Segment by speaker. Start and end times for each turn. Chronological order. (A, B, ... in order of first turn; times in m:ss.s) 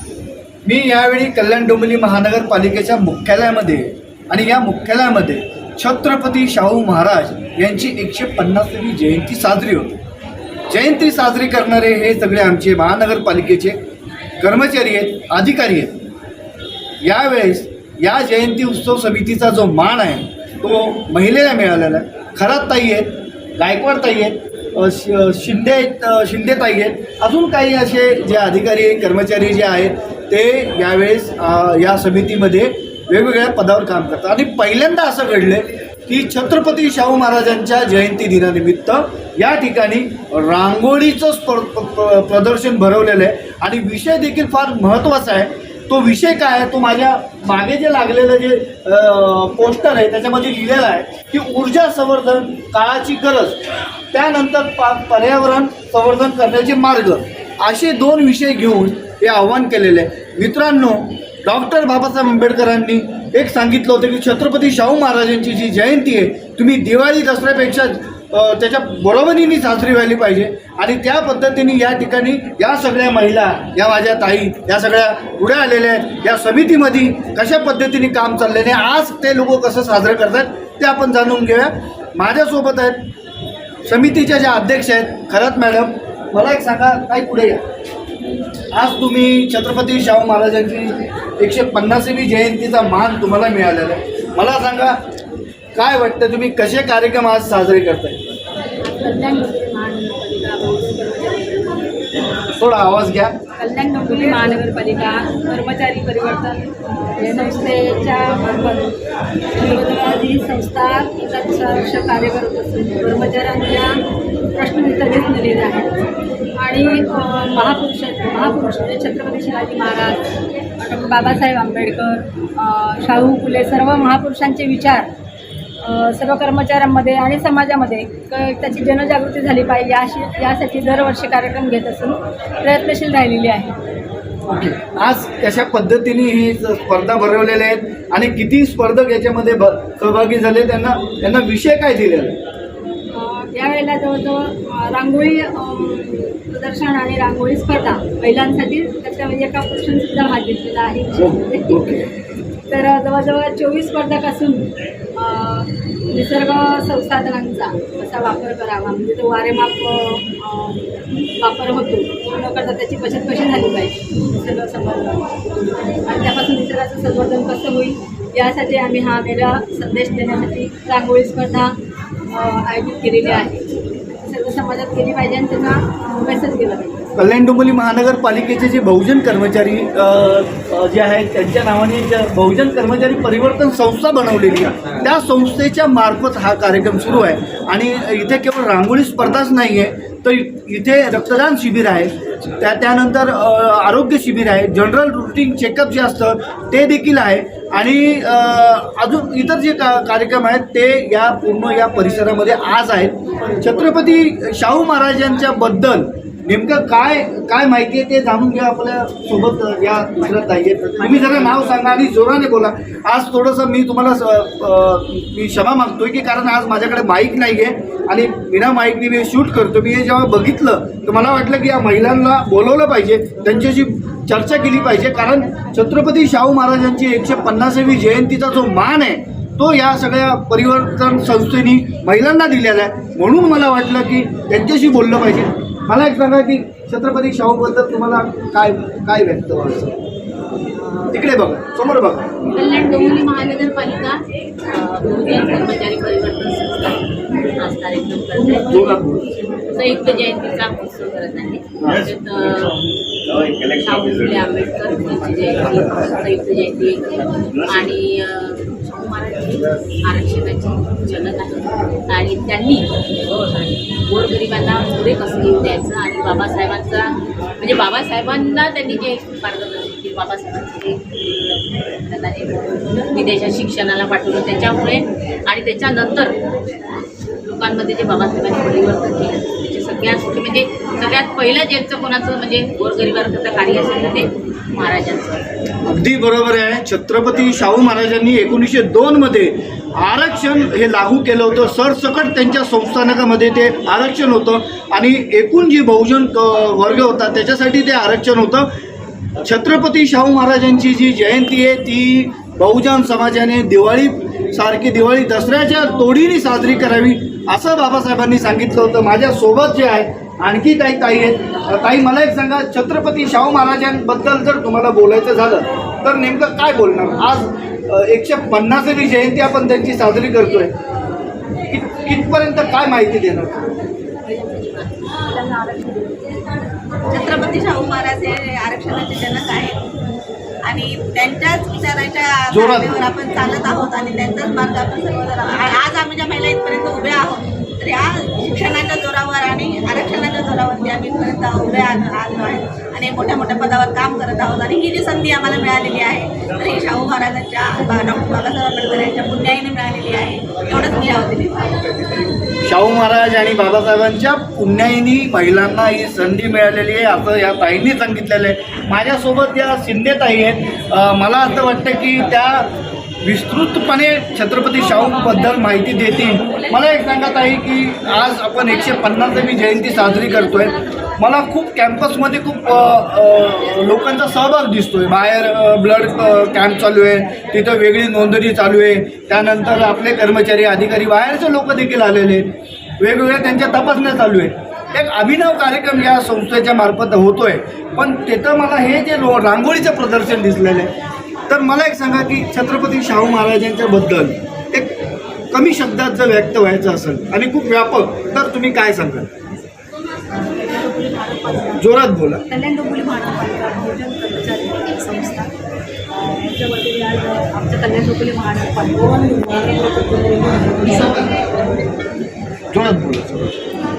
0:00.6-0:09.9 A
0:10.7-0:13.8 A
0:14.4-0:15.9 A
0:17.0-0:53.6 A
0:54.1-1:23.0 A
1:23.9-1:27.6 A
1:28.7-1:35.0 A
1:35.8-1:38.2 A
1:38.8-1:42.3 B
1:42.6-1:43.3 A
1:43.6-1:48.9 B
1:44.2-1:44.6 C
1:47.4-1:47.7 C
1:49.6-1:54.0 B
1:54.6-1:56.0 B
1:56.6-2:00.3 B
2:00.8-2:05.1 B
2:05.8-2:13.7 B
2:14.5-2:22.4 A
2:23.1-2:32.0 B
2:31.2-2:32.1 A
2:32.7-2:45.3 B
2:46.1-2:51.7 B
2:52.3-2:53.6 B
2:54.2-2:57.0 B
2:57.2-4:00.0 A
4:01.1-4:02.5 A
4:02.6-4:09.0 D
4:08.7-4:09.3 A
4:09.7-4:12.8 D
4:13.8-4:22.9 D
4:24.1-4:36.4 D
4:37.4-4:45.4 D
4:45.8-4:58.7 A
4:59.4-5:20.7 A
5:21.7-5:23.7 A
5:25.3-5:26.2 C
5:27.1-5:29.8 E
5:30.6-5:52.4 E
5:32.5-5:32.9 A
5:52.6-6:02.7 A
6:03.2-6:30.9 A
6:31.5-6:34.9 A
6:35.5-6:39.3 A
6:40.3-6:41.8 C
6:41.8-6:42.4 A
6:42.4-6:45.5 C
6:46.1-6:51.9 C
6:52.7-6:53.7 A